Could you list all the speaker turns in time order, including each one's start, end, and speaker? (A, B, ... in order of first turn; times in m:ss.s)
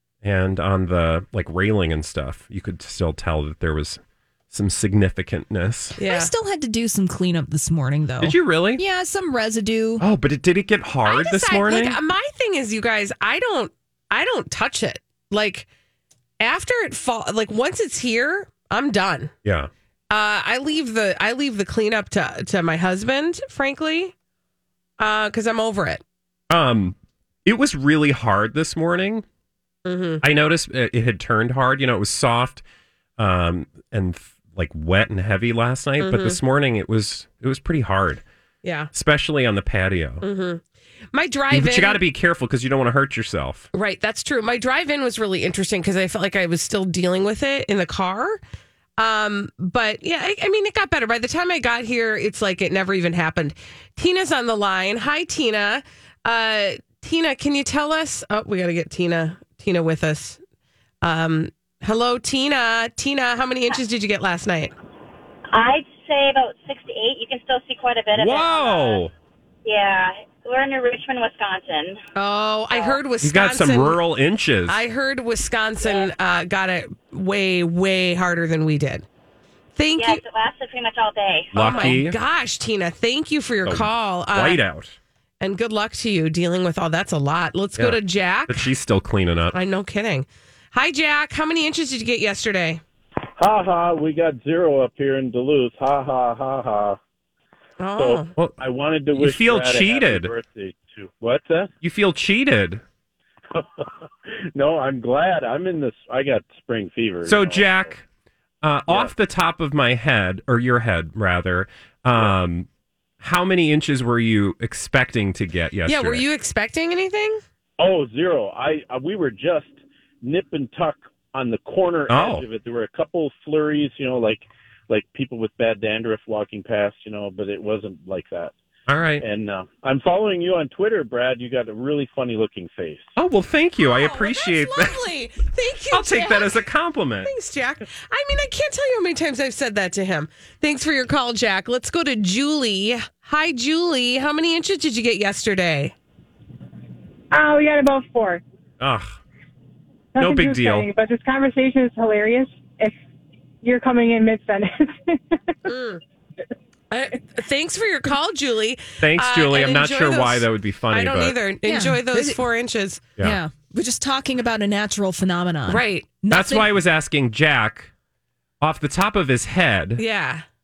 0:00.2-0:06.0 A
0:06.0-0:06.3 B
0:06.0-0:10.0 C
0:08.2-0:08.8 A
0:10.0-0:12.0 A
0:11.0-0:15.7 B
0:16.4-0:19.3 B
0:19.4-0:19.7 A
0:20.1-0:24.1 B
0:25.0-0:26.0 B
0:26.5-0:29.2 A
0:29.8-0:30.2 B
0:30.2-0:32.6 A
0:33.2-0:38.2 A
0:36.0-0:36.4 B
0:38.6-0:38.9 B
0:38.9-0:40.2 A
0:40.2-0:40.6 B
0:41.1-0:42.0 B
0:41.5-0:43.7 A
0:43.7-0:48.4 B
0:49.0-1:00.4 B
1:01.0-1:04.7 B
1:05.5-1:09.0 D
1:08.1-1:09.1 A
1:09.6-1:12.0 D
1:12.2-1:14.0 B
1:12.7-1:13.0 D
1:13.2-1:14.8 A
1:14.7-1:19.0 B
1:15.8-1:16.1 D
1:19.8-1:20.2 B
1:20.0-1:22.0 D
1:21.5-1:22.2 A
1:21.5-1:24.6 B
1:23.6-1:25.0 A
1:25.4-1:28.7 B
1:27.8-1:29.5 A
1:29.5-1:32.8 B
1:33.4-1:37.0 E
1:37.8-1:38.3 B
1:38.0-1:41.7 E
1:39.1-1:40.3 A
1:41.8-1:42.8 A
1:43.5-1:43.9 E
1:44.5-1:47.9 E
1:47.2-1:48.0 A
1:48.6-1:52.7 A
1:48.9-1:49.1 E
1:53.2-1:56.2 A
1:55.8-1:57.4 B
1:57.8-2:08.5 E
2:02.1-2:02.4 A
2:08.9-2:09.2 A
2:09.2-2:13.0 E
2:13.2-2:15.0 A
2:13.8-2:16.6 B
2:15.9-2:17.3 A
2:17.2-2:25.9 B
2:27.3-2:28.4 F
2:28.8-2:29.2 A
2:30.1-2:32.9 F
2:30.2-2:30.9 A
2:33.6-2:35.2 F
2:35.6-2:36.0 B
2:36.9-2:43.0 B
2:39.0-2:41.3 A
2:41.6-2:42.4 C
2:43.2-2:46.7 C
2:45.7-2:46.2 B
2:46.3-2:47.9 A
2:48.6-2:50.0 A
2:50.0-2:50.4 B